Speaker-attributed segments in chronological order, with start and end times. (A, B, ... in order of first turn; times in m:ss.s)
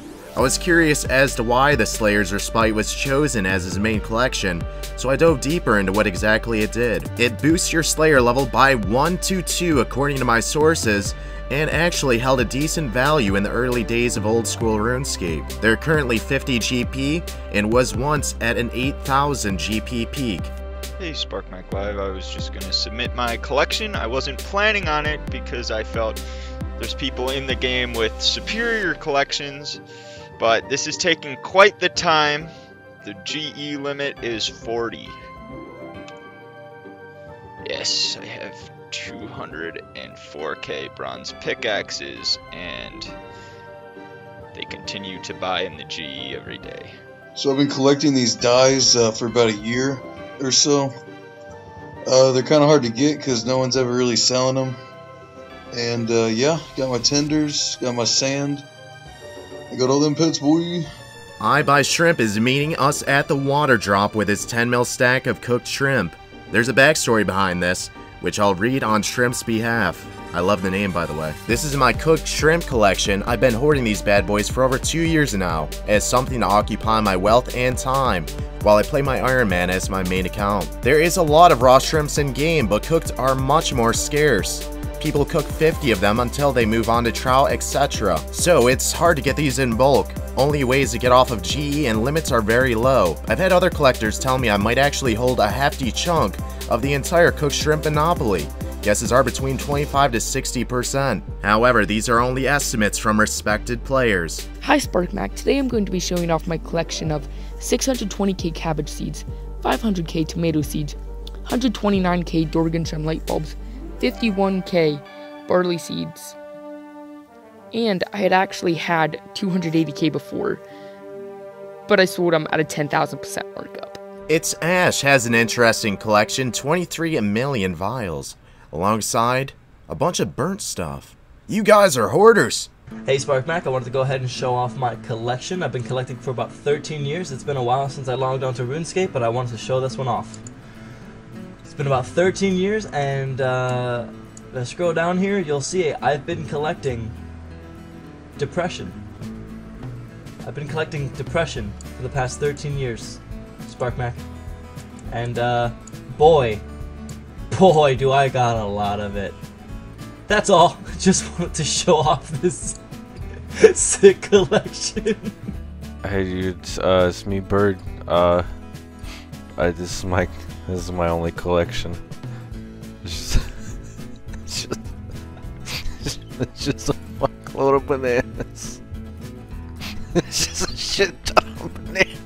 0:00.4-0:20.5 A
0:21.0-0:26.2 B
0:26.8-0:29.8 B
0:30.4-0:32.5 B
0:33.0-0:35.2 B
0:37.7-0:43.1 B
0:44.6-0:46.9 B
0:47.4-0:50.9 C
0:52.1-0:54.8 C
0:55.7-0:58.6 C
0:59.7-1:00.9 C
1:01.4-1:44.5 A
1:44.6-1:56.4 D
1:57.7-2:00.6 D
2:01.9-2:04.0 D
2:04.3-2:12.7 A
2:13.1-2:20.4 E
2:21.6-2:27.2 E
2:28.4-2:29.0 E
2:30.4-2:34.2 E
2:35.1-2:36.6 E
2:37.5-2:39.4 E
2:40.3-2:42.8 E
2:43.6-2:45.4 E
2:46.0-2:48.7 F
2:49.5-2:52.1 F
2:53.0-2:53.7 F
2:54.5-2:54.9 F
2:56.1-2:58.8 F
3:00.3-3:02.1 F